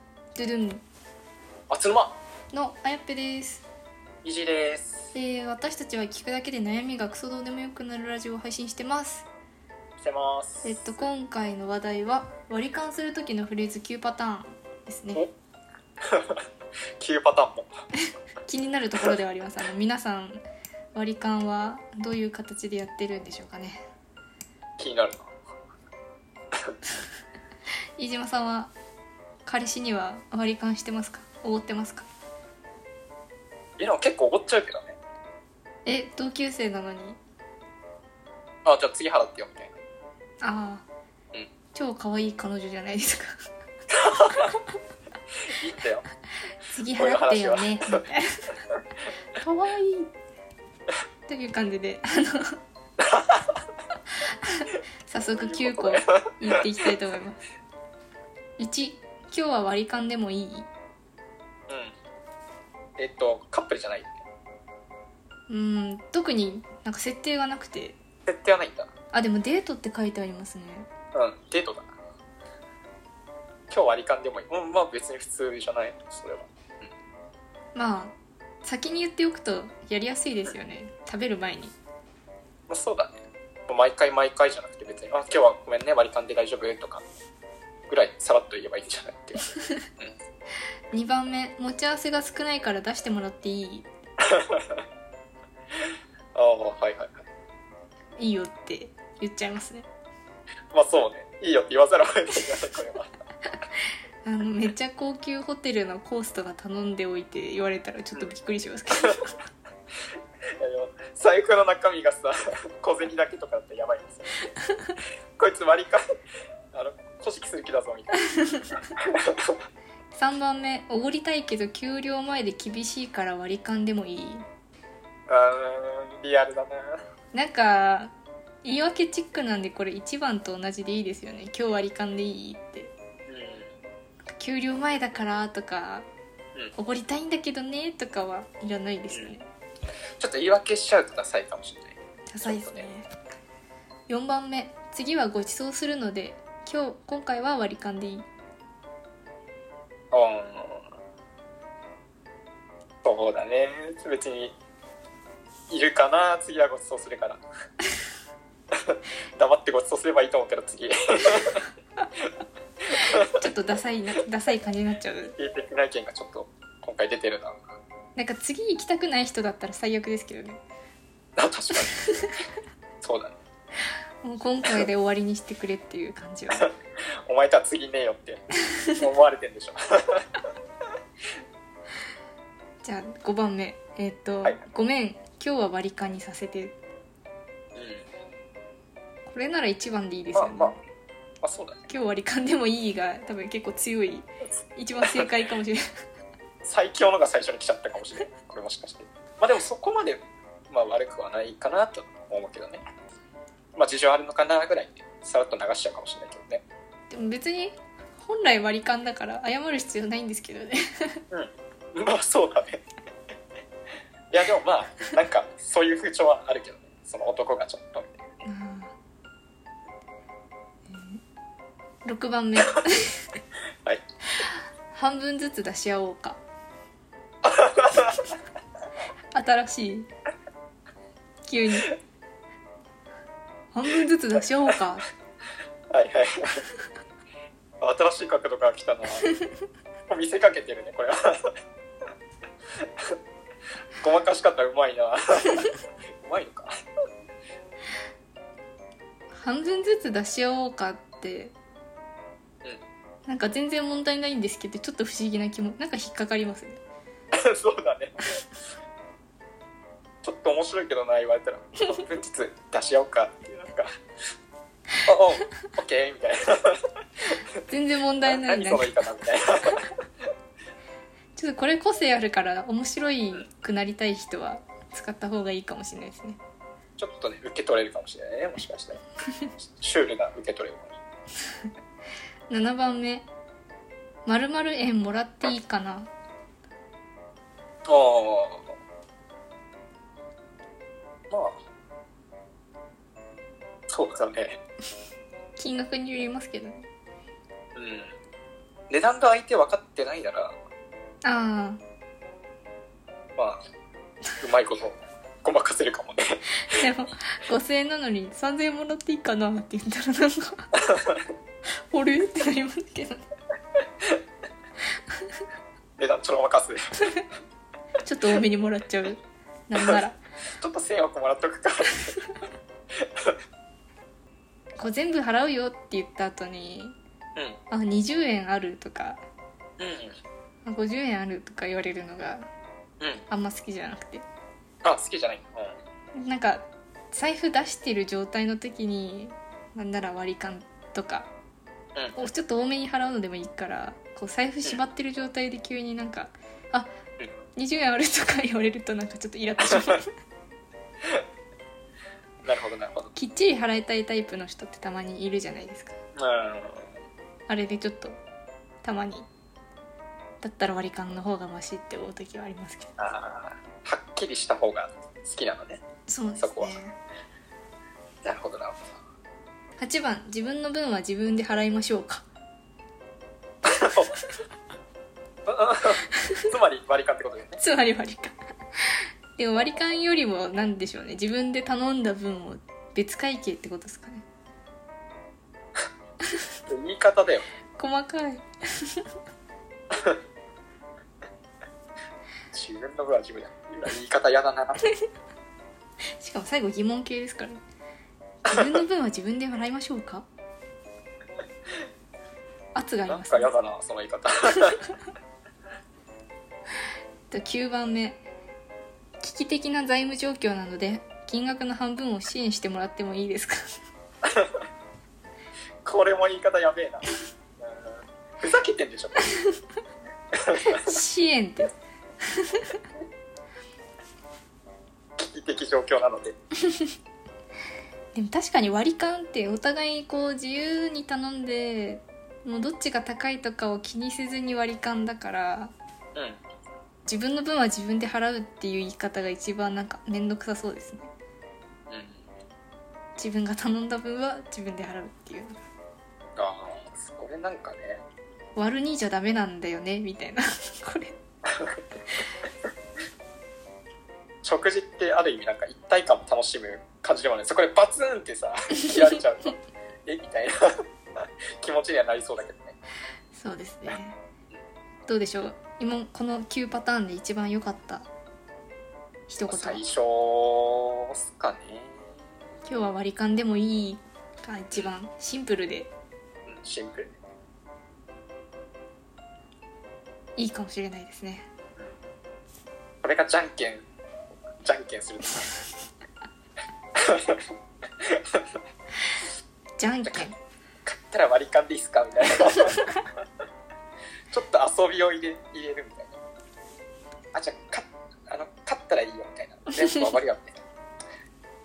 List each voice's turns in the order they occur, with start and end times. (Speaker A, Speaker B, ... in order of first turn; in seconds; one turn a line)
Speaker A: 0.3-0.8
Speaker B: 1.7-2.2
Speaker A: 2.5-3.7
Speaker B: 4.2-5.1
Speaker A: 5.1-9.3
Speaker B: 10.0-11.1
Speaker A: 10.6-15.2
Speaker B: 16.0-16.4
Speaker B: 17.0-17.7
Speaker A: 18.4-20.4
Speaker A: 20.9-23.8
Speaker B: 24.8-25.3
Speaker A: 28.0-28.7
Speaker A: 29.4-32.1
Speaker B: 33.8-35.0
Speaker A: 35.9-37.2
Speaker B: 38.6-39.8
Speaker A: 40.4-40.9
Speaker A: 41.7-43.4
Speaker B: 43.9-44.5
Speaker B: 45.4-46.1
Speaker A: 46.6-48.5
Speaker B: 46.9-48.1
Speaker A: 49.4-50.1
Speaker A: 51.3-52.6
Speaker B: 53.0-53.6
Speaker A: 54.1-57.4
Speaker B: 55.3-56.9
Speaker A: 58.6-60.7
Speaker B: 61.7-61.9
Speaker B: 63.0-64.2
Speaker A: 65.5-68.0
Speaker B: 68.3-68.9
Speaker A: 69.1-70.9
Speaker B: 71.1-71.9
Speaker B: 73.7-76.5
Speaker A: 77.8-81.7
Speaker B: 82.7-83.2
Speaker B: 83.7-87.0
Speaker B: 87.9-90.1
Speaker A: 89.5-89.8
Speaker A: 90.9-93.9
Speaker B: 94.2-94.8
Speaker B: 95.8-97.2
Speaker A: 98.2-99.9
Speaker B: 100.7-103.1
Speaker A: 104.2-109.3
Speaker B: 110.6-114.4
Speaker A: 114.7-115.0
Speaker B: 115.4-116.0
Speaker B: 116.7-118.2
Speaker A: 118.3-118.7
Speaker B: 119.0-119.6
Speaker A: 120.1-124.5
Speaker B: 125.3-127.0
Speaker A: 127.3-128.1
Speaker A: 128.6-132.9
Speaker B: 133.3-133.7
Speaker A: 134.3-136.1
Speaker A: 136.8-139.5
Speaker B: 139.1-139.3
Speaker B: 140.2-142.9
Speaker A: 142.3-143.1
Speaker A: 144.1-148.3
Speaker B: 150.1-150.9
Speaker B: 153.0-154.6
Speaker B: 155.7-157.4
Speaker B: 158.7-161.7
Speaker A: 162.9-165.4
Speaker B: 163.0-163.4
Speaker B: 165.4-167.6
Speaker A: 168.2-170.6
Speaker B: 171.4-172.4
Speaker A: 171.9-172.3
Speaker B: 173.0-173.4
Speaker A: 174.2-176.7
Speaker B: 177.3-178.4
Speaker B: 179.0-180.3
Speaker A: 182.8-186.8
Speaker B: 187.8-188.1
Speaker A: 189.3-190.8
Speaker B: 190.3-190.8
Speaker B: 191.4-191.9
Speaker A: 191.9-195.8
Speaker B: 195.0-195.3
Speaker B: 196.6-202.8
Speaker B: 203.8-206.6
Speaker A: 207.1-211.2
Speaker B: 211.3-212.8
Speaker B: 214.3-218.2
Speaker A: 218.4-218.9
Speaker A: 220.9-221.2
Speaker A: 222.1-223.4
Speaker A: 224.3-226.4
Speaker B: 227.4-228.3
Speaker A: 229.3-230.1
Speaker A: 231.4-231.9
Speaker A: 233.7-235.1
Speaker B: 235.9-236.7
Speaker B: 237.8-239.3
Speaker B: 240.1-241.6
Speaker B: 242.8-243.2
Speaker B: 244.0-246.7
Speaker A: 249.3-251.5
Speaker A: 253.3-256.8
Speaker B: 257.3-258.4
Speaker B: 260.2-263.9
Speaker B: 265.1-266.8
Speaker A: 267.7-269.0
Speaker B: 268.2-269.9
Speaker A: 271.4-276.4
Speaker B: 277.0-279.0
Speaker B: 279.6-281.0
Speaker A: 282.5-283.3
Speaker A: 284.3-286.1
Speaker B: 287.9-288.8
Speaker B: 291.3-291.6
Speaker B: 293.9-294.6
Speaker A: 295.6-296.9
Speaker B: 297.8-298.1
Speaker B: 298.9-300.6
Speaker A: 301.2-301.8
Speaker B: 303.4-303.6
Speaker B: 304.4-306.9
Speaker A: 306.7-310.7
Speaker B: 310.8-311.2
Speaker A: 311.7-313.2
Speaker A: 315.1-315.4
Speaker B: 316.0-317.0
Speaker A: 318.0-320.2
Speaker B: 320.6-322.3
Speaker B: 323.0-323.4
Speaker A: 324.8-326.9
Speaker A: 327.7-329.2
Speaker B: 329.8-330.2
Speaker A: 330.6-332.5
Speaker B: 333.0-333.3
Speaker A: 333.3-334.2
Speaker B: 334.8-335.8
Speaker A: 336.2-341.3
Speaker A: 342.2-346.9
Speaker A: 347.6-350.1
Speaker B: 349.6-349.9
Speaker B: 352.4-353.1
Speaker A: 353.1-356.0
Speaker B: 356.2-357.0
Speaker A: 357.5-358.2
Speaker A: 358.8-359.3
Speaker A: 360.4-362.9
Speaker B: 363.0-365.8
Speaker A: 366.1-367.0
Speaker B: 366.4-366.8
Speaker B: 368.2-369.0
Speaker A: 369.8-372.2
Speaker B: 373.6-374.1
Speaker B: 375.5-377.6
Speaker A: 377.6-384.2
Speaker B: 386.7-387.4
Speaker A: 387.8-389.1
Speaker B: 389.9-390.2
Speaker B: 392.5-394.8
Speaker A: 396.2-397.6
Speaker A: 398.4-400.3
Speaker A: 402.8-403.5
Speaker B: 403.1-404.8
Speaker A: 407.3-408.2
Speaker A: 409.2-413.8
Speaker B: 414.2-414.6
Speaker B: 415.9-417.1
Speaker B: 417.6-419.3
Speaker B: 420.4-421.0
Speaker A: 420.7-421.7
Speaker A: 422.3-422.8
Speaker B: 425.2-426.4
Speaker A: 426.7-426.9
Speaker A: 428.1-435.7
Speaker B: 436.1-436.4
Speaker A: 437.1-441.1
Speaker B: 441.9-442.2
Speaker A: 443.2-445.6
Speaker B: 446.4-448.0
Speaker A: 448.6-451.2
Speaker B: 451.5-451.8
Speaker B: 454.4-462.8
Speaker A: 463.3-464.2
Speaker A: 465.1-468.1
Speaker A: 469.3-469.8
Speaker B: 469.4-472.1
Speaker A: 472.7-475.9
Speaker B: 476.5-477.2
Speaker A: 480.4-481.5
Speaker B: 483.0-483.9
Speaker B: 484.6-485.6
Speaker B: 487.0-487.5
Speaker B: 488.0-488.6
Speaker A: 489.8-490.4
Speaker B: 490.9-492.8
Speaker B: 494.3-496.2
Speaker B: 497.3-500.6